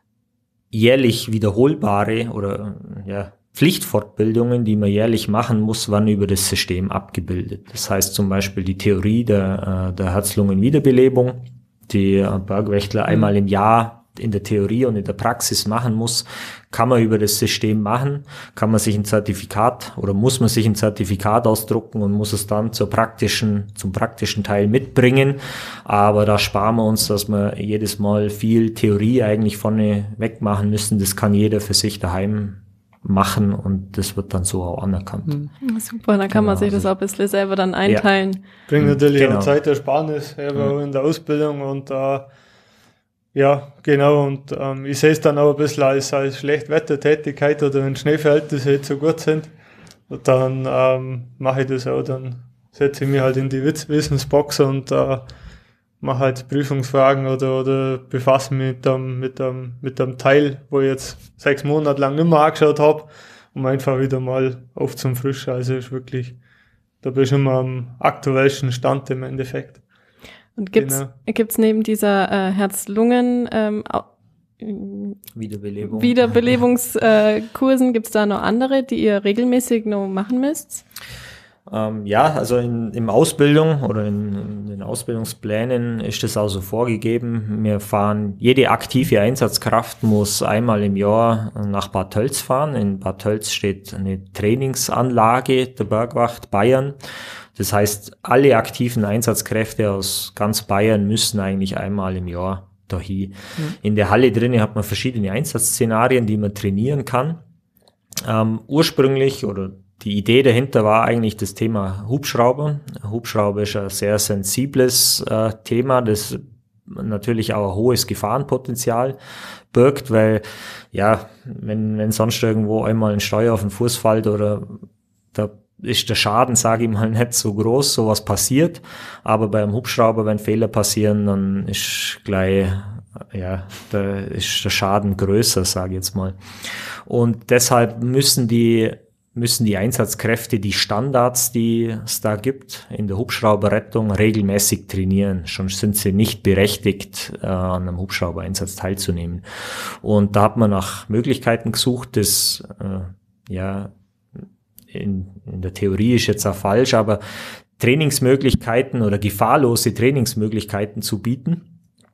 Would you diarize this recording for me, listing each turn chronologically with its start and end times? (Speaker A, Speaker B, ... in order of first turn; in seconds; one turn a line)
Speaker A: 0.7-35.3
Speaker B: 35.6-38.4
Speaker A: 36.3-36.9
Speaker C: 38.7-42.3
Speaker A: 38.8-39.5
Speaker C: 43.3-49.5
Speaker C: 50.1-55.3
Speaker C: 56.0-66.4
Speaker C: 67.0-69.8
Speaker B: 70.6-74.1
Speaker C: 70.8-71.1
Speaker B: 74.6-75.2
Speaker A: 75.3-76.4
Speaker B: 75.8-80.8
Speaker A: 81.7-97.0
Speaker A: 97.5-107.4
Speaker A: 108.2-119.2
Speaker A: 119.7-157.2
Speaker A: 157.8-161.7